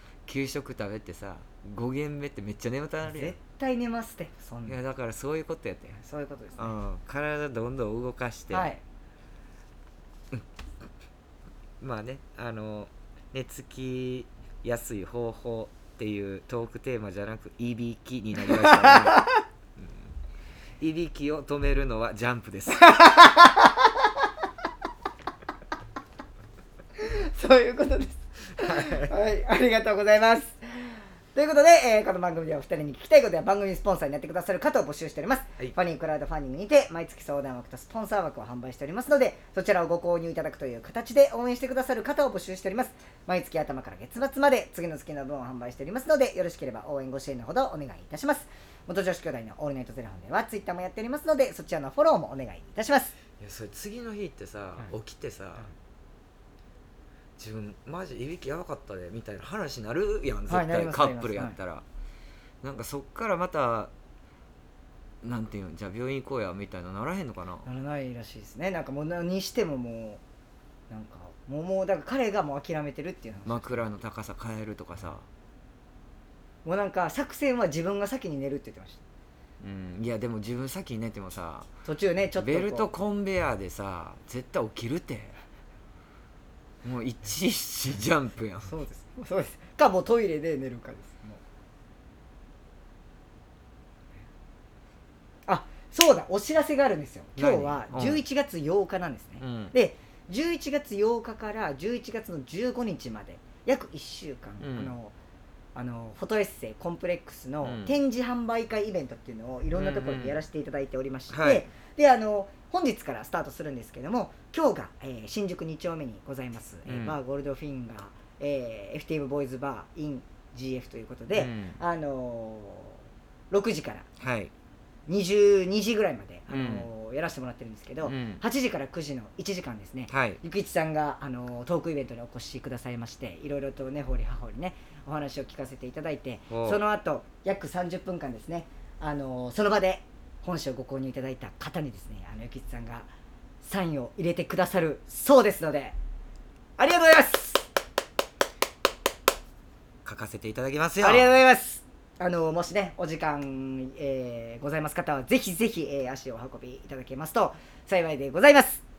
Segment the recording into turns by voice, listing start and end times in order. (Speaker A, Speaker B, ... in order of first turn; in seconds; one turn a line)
Speaker A: 0.2-3.4
Speaker B: 3.0-4.8
Speaker A: 4.7-6.0
Speaker B: 6.0-6.7
Speaker A: 6.6-8.7
Speaker B: 8.5-8.8
Speaker A: 11.8-20.1
Speaker B: 18.4-19.4
Speaker A: 20.8-23.0
Speaker B: 22.9-23.9
Speaker B: 27.0-53.1
Speaker A: 28.6-29.1
Speaker A: 53.4-55.7
Speaker A: 57.4-61.9
Speaker B: 60.5-61.6
Speaker A: 62.6-63.9
Speaker A: 65.2-67.7
Speaker B: 67.6-70.2
Speaker B: 70.9-73.8
Speaker A: 73.5-75.3
Speaker B: 76.6-79.0
Speaker A: 79.6-81.7
Speaker B: 81.8-82.9
Speaker A: 82.4-85.4
Speaker A: 86.8-88.7
Speaker B: 88.7-91.4
Speaker B: 95.5-105.1
Speaker A: 97.4-98.2
Speaker A: 99.4-99.7
Speaker A: 104.6-104.9
Speaker B: 105.8-124.0
Speaker A: 107.6-107.9
Speaker A: 109.7-110.4
Speaker A: 111.3-111.7
Speaker A: 116.8-117.2
Speaker A: 121.3-121.8
Speaker A: 124.2-124.5
Speaker B: 125.1-143.1
Speaker A: 126.5-126.9
Speaker A: 128.0-128.4
Speaker A: 130.1-130.4
Speaker A: 136.5-136.8
Speaker B: 143.6-145.9
Speaker B: 146.8-147.6
Speaker A: 150.0-151.3
Speaker B: 151.0-158.8